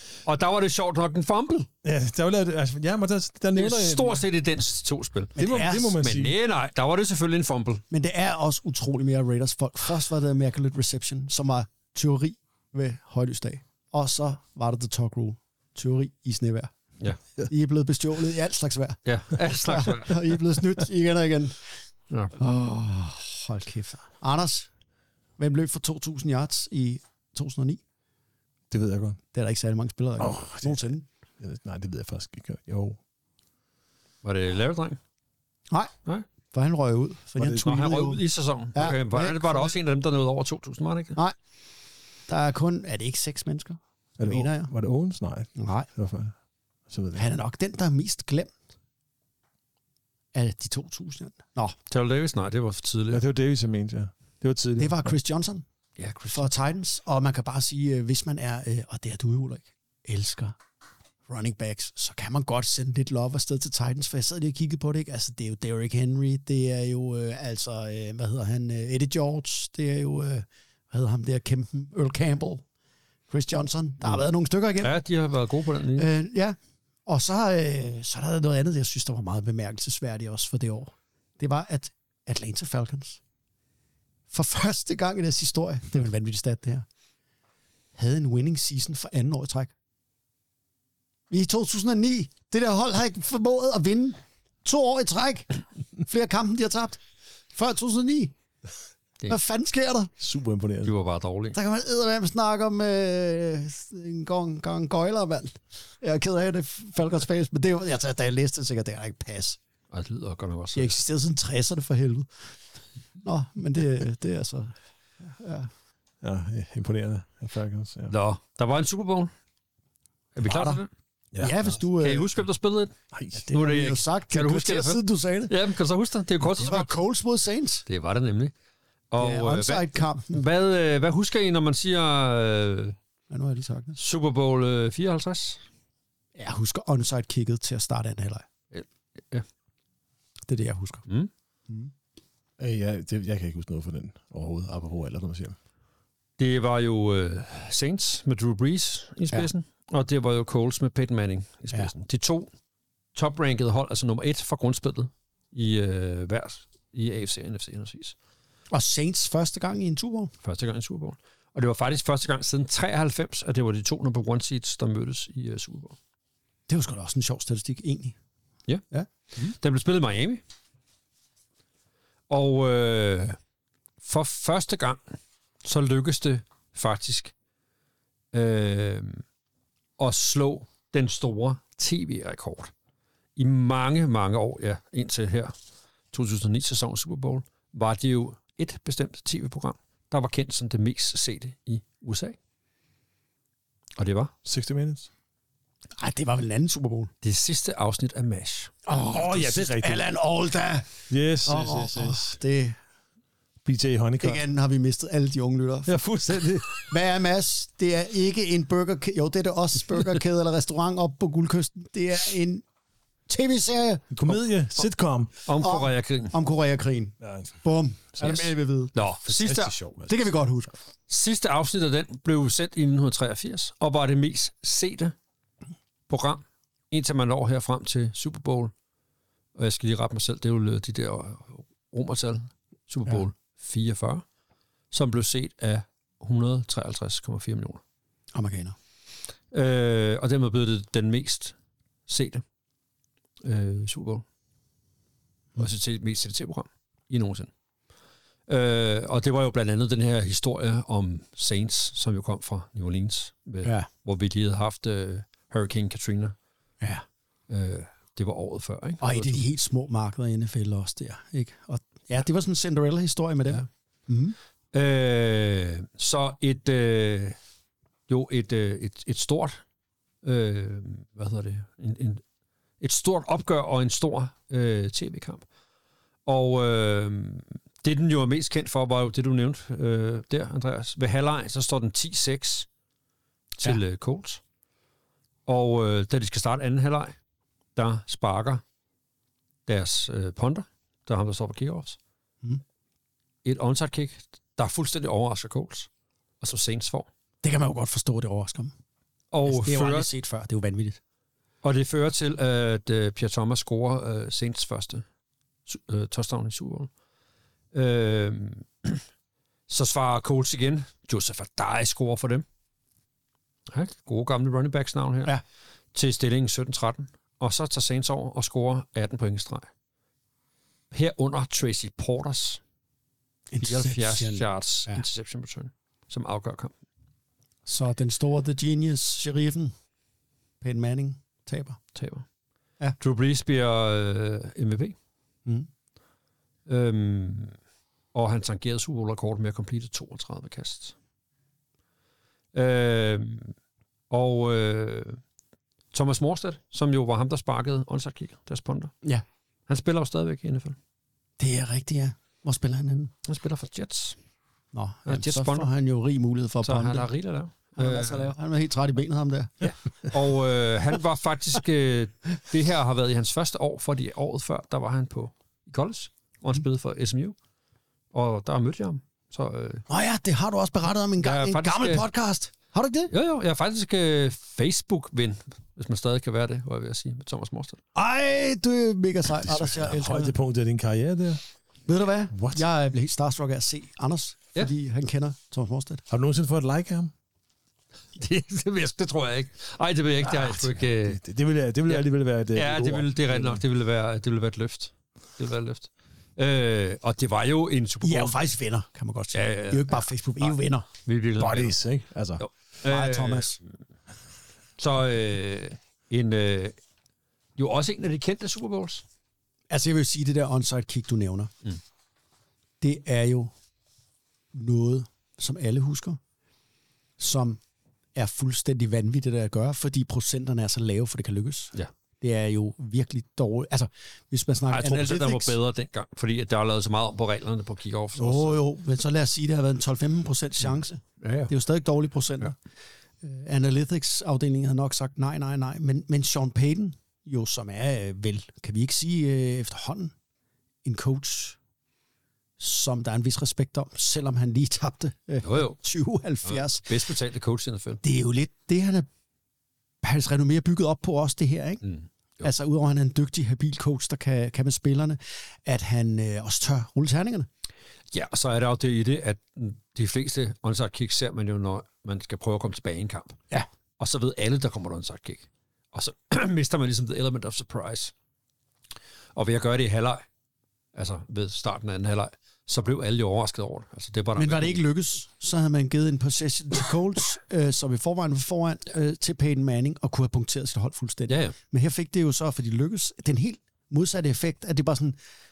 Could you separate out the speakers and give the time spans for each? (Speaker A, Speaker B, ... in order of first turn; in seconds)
Speaker A: 0.2-1.7, 3.5-5.4, 6.0-7.8, 19.1-20.4, 22.1-22.3, 34.2-35.0, 37.5-41.2, 51.9-53.2, 56.0-56.5, 74.8-76.1, 100.8-101.5, 109.9-110.9, 118.1-119.3, 120.3-120.9, 122.0-122.9, 123.5-126.9, 127.9-128.5, 129.1-132.9, 134.0-135.6, 138.7-139.4, 146.4-152.5, 153.1-158.1, 160.4-165.9, 169.3-170.4, 172.3-173.4, 174.0-175.0, 175.6-177.3, 178.3-179.2, 180.0-182.7, 183.4-185.5, 186.1-192.3, 194.0-194.3, 197.2-198.7, 215.4-216.3, 218.2-219.7, 221.1-225.1, 226.1-228.7, 229.6-234.2, 234.9-237.8, 239.5-241.5, 242.1-242.4, 243.4-244.2, 245.6-247.5, 248.5-256.3, 257.5-259.4, 264.7-267.4, 268.1-269.6, 270.2-272.2, 272.8-275.4, 276.2-282.7, 283.6-284.4, 285.5-287.1, 287.8-288.6, 289.7-292.0, 293.4-295.9, 296.4-297.1, 299.3-300.1, 301.6-305.0, 305.7-306.9, 307.7-309.0, 309.7-312.4, 313.7-315.4, 315.9-319.7, 320.9-322.6, 323.6-326.7, 331.9-332.2, 333.0-334.9, 336.7-337.5, 338.1-340.9, 342.5-343.5, 344.1-345.2, 345.9-349.0, 349.7-350.8, 353.2-354.2, 355.1-355.7, 356.6-358.3, 359.6-367.3, 368.1-369.9, 371.2-372.1, 373.1-377.8, 388.1-391.2, 391.9-398.4, 399.3-400.5, 401.0-401.7, 402.4-403.6, 404.8-406.8, 407.6-409.0, 424.7-428.6, 431.2-431.5, 445.4-445.8, 446.4-448.0, 451.8-452.5, 458.1-463.4, 464.0-468.1, 469.3-470.2, 470.9-474.8, 481.3-481.6
Speaker B: 1.8-4.2, 5.4-6.3, 28.7-29.2, 30.2-33.0, 37.4-37.7, 44.2-46.3, 46.9-47.3, 53.1-55.1, 100.2-100.9, 116.2-118.1, 121.3-121.7, 123.1-123.4, 142.6-145.6, 194.4-195.1, 198.9-200.0, 201.1-202.3, 203.6-204.4, 205.9-206.7, 214.1-215.3, 217.2-217.6, 219.3-220.3, 379.4-381.4, 382.3-382.6, 386.1-387.1, 390.2-393.6, 401.4-402.4
Speaker C: 5.4-6.0, 7.9-16.7, 17.5-21.6, 22.4-24.7, 25.4-27.8, 29.3-31.1, 36.5-38.2, 38.7-39.7, 42.3-44.7, 45.5-45.9, 47.1-48.5, 50.3-51.8, 54.8-55.6, 56.3-60.5, 61.3-72.6, 73.3-75.0, 76.0-83.2, 84.3-86.8, 88.0-89.7, 91.3-95.5, 96.0-97.0, 97.5-98.3, 99.3-100.1, 101.5-109.6, 110.7-112.3, 113.2-115.7, 120.4-120.8, 121.4-122.3, 123.3-125.5, 126.5-127.8, 129.2-130.4, 133.3-134.0, 136.3-138.4, 140.5-141.1, 158.7-160.3, 166.7-168.2, 196.0-197.1, 198.8-202.8, 204.2-206.0, 206.8-212.6, 213.3-214.5, 215.6-218.9, 220.1-220.7, 238.3-238.8, 259.0-264.4, 297.4-298.7, 299.4-301.0, 323.5-325.0, 327.6-329.7, 330.6-331.8, 351.4-353.1, 354.7-357.1, 357.8-359.6, 369.9-373.1, 377.9-380.3, 381.9-386.0, 398.0-400.9, 402.9-403.6, 409.7-411.5, 412.8-413.5, 414.5-416.2, 417.2-417.6, 418.1-425.6, 428.1-432.5, 433.2-440.1, 440.8-441.6, 442.6-446.9, 448.0-449.1, 450.0-451.8, 452.4-457.5, 474.4-485.2